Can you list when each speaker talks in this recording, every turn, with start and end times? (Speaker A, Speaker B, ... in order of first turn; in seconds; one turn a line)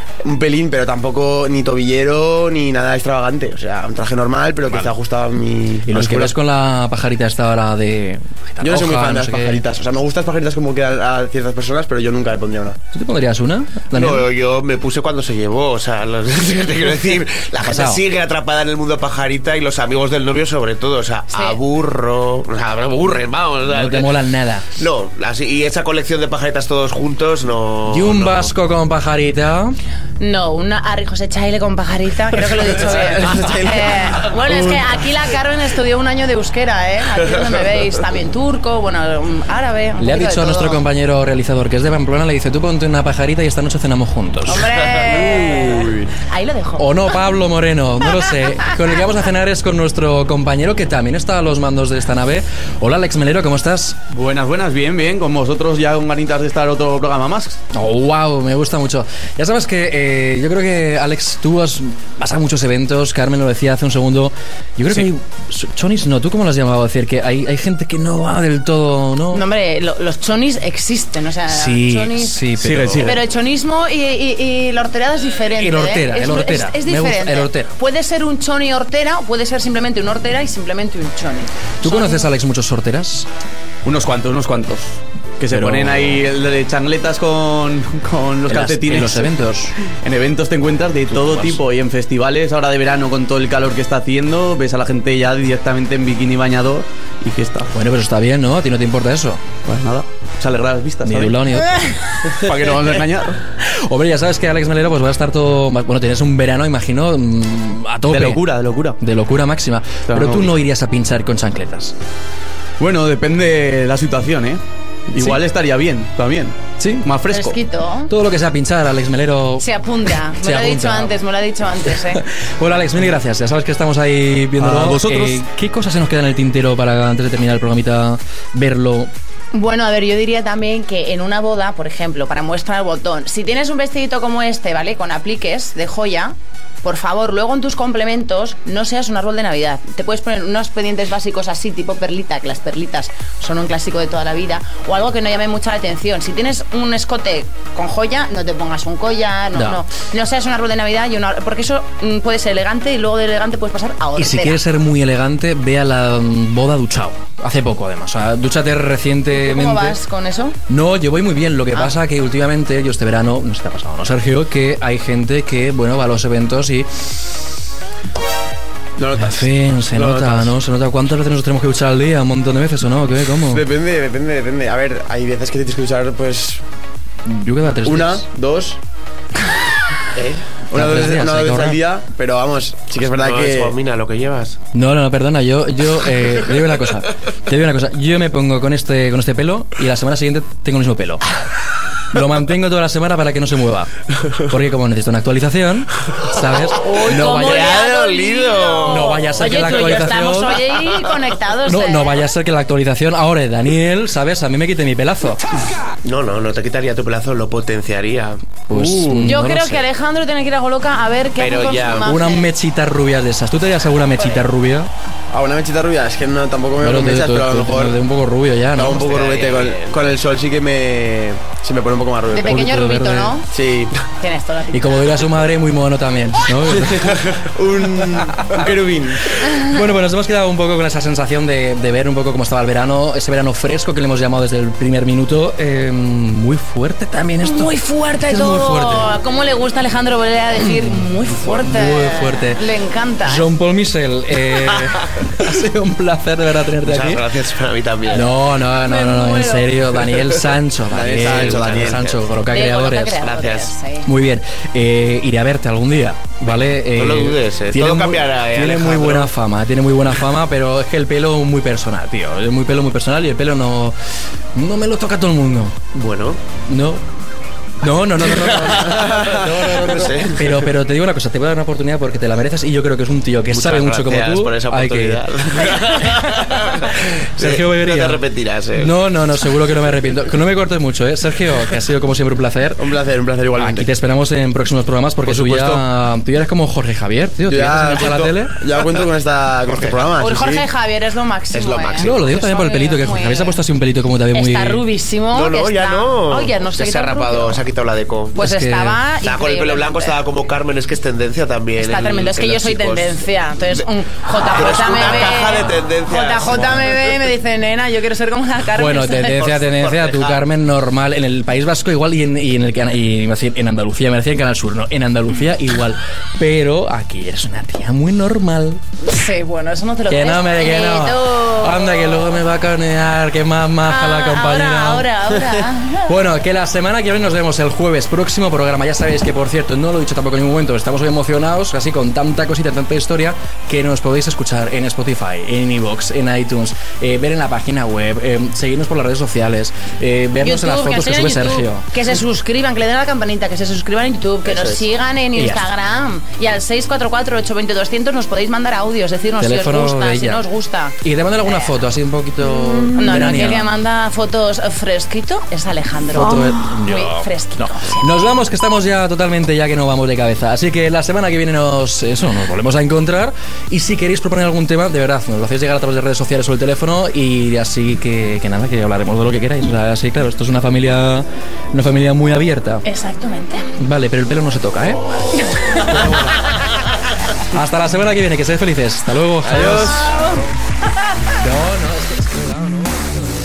Speaker A: 0.2-6.3
Speaker B: 5.9-9.6
Speaker A: 8.6-12.8
Speaker B: 12.9-14.2
Speaker C: 13.9-24.1
Speaker B: 17.6-18.0
Speaker B: 23.7-24.7
Speaker C: 24.8-28.5
Speaker B: 27.9-29.8
Speaker D: 30.2-40.8
Speaker B: 32.8-33.4
Speaker A: 32.8-34.8
Speaker B: 40.0-44.7
Speaker D: 44.5-47.2
Speaker B: 46.8-54.0
Speaker E: 54.1-57.6
Speaker B: 57.7-69.4
Speaker D: 69.3-72.5
Speaker B: 71.5-73.1
Speaker E: 72.6-73.2
Speaker D: 73.0-82.3
Speaker B: 75.6-77.7
Speaker B: 81.8-83.2
Speaker E: 83.8-89.3
Speaker B: 85.5-86.2
Speaker B: 88.5-89.7
Speaker E: 89.8-97.7
Speaker B: 91.1-91.6
Speaker B: 97.7-99.4
Speaker E: 99.6-101.4
Speaker B: 101.0-101.8
Speaker E: 102.4-103.4
Speaker B: 103.7-108.4
Speaker E: 108.1-109.0
Speaker B: 109.0-111.9
Speaker E: 110.1-110.5
Speaker E: 112.8-114.6
Speaker E: 115.1-117.6
Speaker B: 115.1-115.4
Speaker B: 116.8-117.1
Speaker D: 117.3-118.1
Speaker B: 118.1-119.6
Speaker D: 119.6-122.2
Speaker B: 120.4-121.1
Speaker B: 122.2-129.1
Speaker E: 124.6-125.4
Speaker D: 129.5-154.6
Speaker B: 149.5-149.8
Speaker B: 154.2-160.0
Speaker D: 159.3-160.6
Speaker B: 160.7-167.2
Speaker A: 169.0-170.5
Speaker B: 169.2-173.6
Speaker A: 173.5-176.6
Speaker B: 177.2-178.2
Speaker A: 177.8-178.8
Speaker C: 180.1-180.4
Speaker A: 180.7-183.8
Speaker B: 180.7-181.8
Speaker C: 183.2-184.6
Speaker B: 184.7-191.3
Speaker B: 192.1-193.9
Speaker B: 194.4-197.8
Speaker D: 196.7-202.3
Speaker C: 197.1-200.3
Speaker B: 198.8-200.6
Speaker B: 201.7-205.4
Speaker C: 206.0-208.5
Speaker B: 208.7-209.8
Speaker A: 208.7-209.3
Speaker D: 209.2-212.5
Speaker C: 211.4-212.1
Speaker B: 212.1-214.9
Speaker D: 214.1-214.4
Speaker A: 215.3-218.0
Speaker B: 216.8-219.0
Speaker A: 218.7-222.8
Speaker C: 218.8-220.0
Speaker D: 222.3-223.5
Speaker B: 222.4-223.3
Speaker A: 223.5-223.9
Speaker D: 224.2-225.3
Speaker B: 224.7-227.3
Speaker A: 226.8-229.3
Speaker B: 228.4-228.7
Speaker B: 229.4-239.1
Speaker D: 237.4-243.5
Speaker B: 240.9-242.6
Speaker B: 243.2-247.2
Speaker C: 246.8-248.3
Speaker B: 248.1-253.2
Speaker D: 248.8-249.7
Speaker A: 250.9-252.1
Speaker C: 251.2-252.2
Speaker D: 252.5-254.1
Speaker C: 253.2-253.8
Speaker B: 254.0-264.0
Speaker C: 256.8-259.3
Speaker B: 264.5-265.8
Speaker C: 265.9-266.4
Speaker B: 266.7-267.0
Speaker B: 267.8-275.7
Speaker C: 268.3-270.6
Speaker C: 273.5-278.9
Speaker B: 277.0-278.2
Speaker B: 278.8-282.8
Speaker A: 282.8-283.9
Speaker B: 283.5-288.5
Speaker A: 285.3-285.8
Speaker A: 287.5-290.6
Speaker D: 290.2-293.6
Speaker C: 291.5-292.1
Speaker B: 292.0-294.8
Speaker D: 294.3-297.6
Speaker C: 295.3-298.4
Speaker D: 298.4-300.1
Speaker B: 298.4-299.0
Speaker C: 299.2-303.8
Speaker D: 301.8-309.7
Speaker C: 304.4-307.2
Speaker B: 308.7-318.8
Speaker C: 309.7-310.4
Speaker D: 319.0-322.2
Speaker B: 320.1-341.9
Speaker D: 323.8-326.2
Speaker D: 340.4-351.7
Speaker C: 344.4-344.9
Speaker B: 345.3-345.7
Speaker B: 349.4-350.4
Speaker B: 351.0-353.7
Speaker D: 352.9-358.1
Speaker B: 356.1-372.8
Speaker D: 372.9-373.7
Speaker B: 373.8-375.0
Speaker D: 375.5-376.2
Speaker B: 375.7-376.5
Speaker B: 377.5-380.2
Speaker D: 379.9-380.5
Speaker B: 381.4-383.3